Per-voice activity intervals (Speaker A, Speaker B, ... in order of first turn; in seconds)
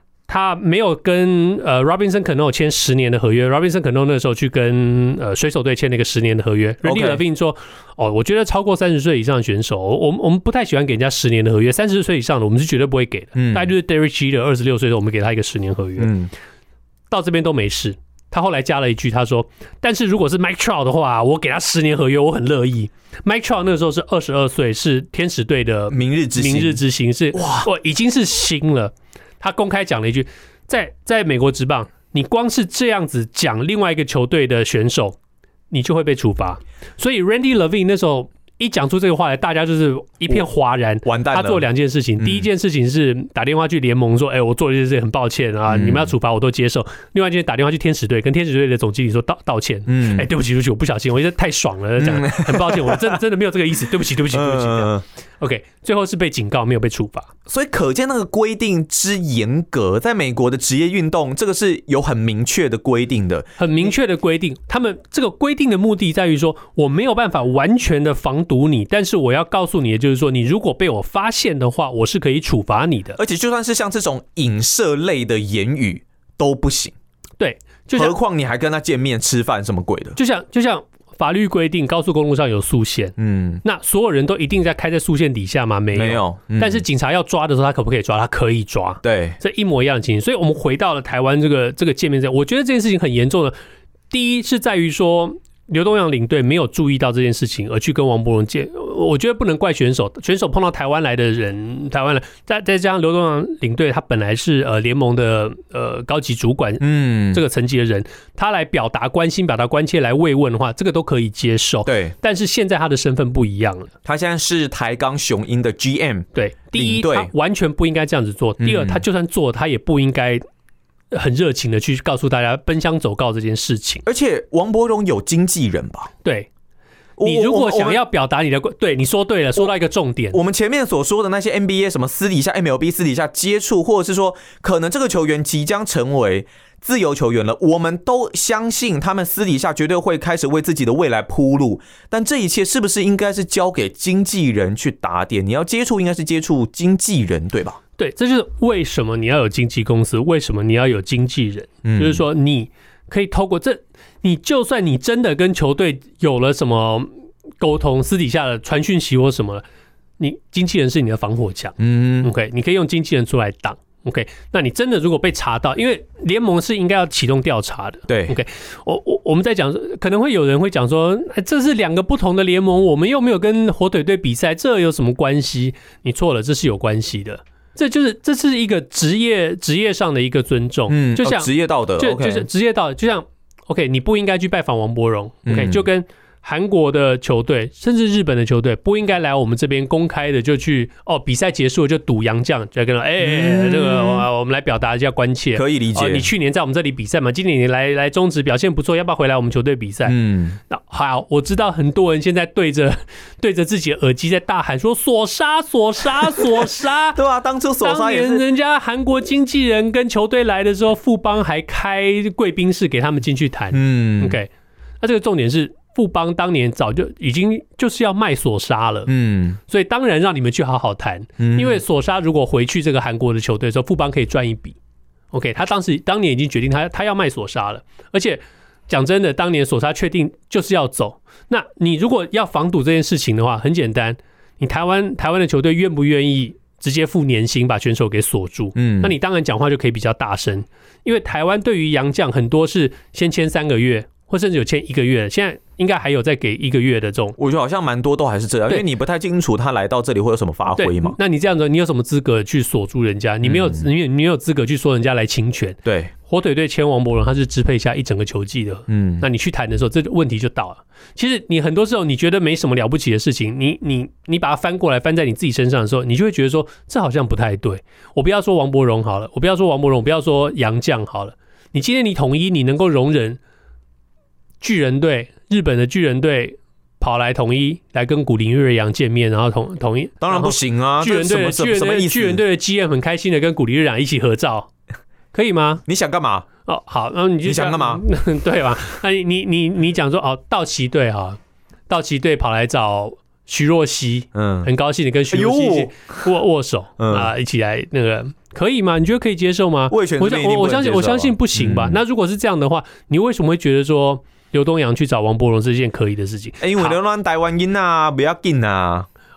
Speaker A: 0.3-16.1, 17.1-35.2, 35.7-57.3, 63.6-73.2, 77.4-78.2, 80.2-93.5, 94.1-113.9, 116.3-120.4, 121.1-124.0, 126.2-126.5, 127.2-130.4, 148.0-159.6, 160.2-200.2, 200.7-207.2, 207.8-214.5, 215.0-219.1, 219.7-224.8, 225.3-247.4, 250.7-273.4, 274.6-284.7, 285.3-285.8, 286.6-307.0
Speaker B: 6.8-7.2, 13.3-13.7, 16.0-16.3, 25.9-26.8, 27.3-27.7, 41.0-41.6, 42.2-42.5, 45.7-46.1, 49.9-50.3, 52.0-53.1, 54.3-55.0, 57.5-63.9, 73.2-76.9, 77.9-80.2, 83.2-83.6, 85.9-86.8, 89.0-89.4, 106.8-107.4, 111.8-112.1, 114.0-117.3, 118.6-119.0, 124.0-126.1, 127.2-128.0, 130.3-147.8, 151.8-152.2, 161.8-162.3, 168.1-168.4, 180.9-182.5, 185.4-185.8, 193.2-194.3, 195.6-196.3, 200.1-200.6, 206.4-208.4, 213.7-214.4, 219.1-219.6, 221.4-221.8, 238.8-239.2, 247.4-251.2, 253.4-253.9, 255.8-256.1, 258.9-259.2, 280.2-282.4, 285.9-286.5, 287.4-288.0, 294.3-294.7, 295.3-296.3, 297.0-297.3, 299.9-302.0, 306.6-309.1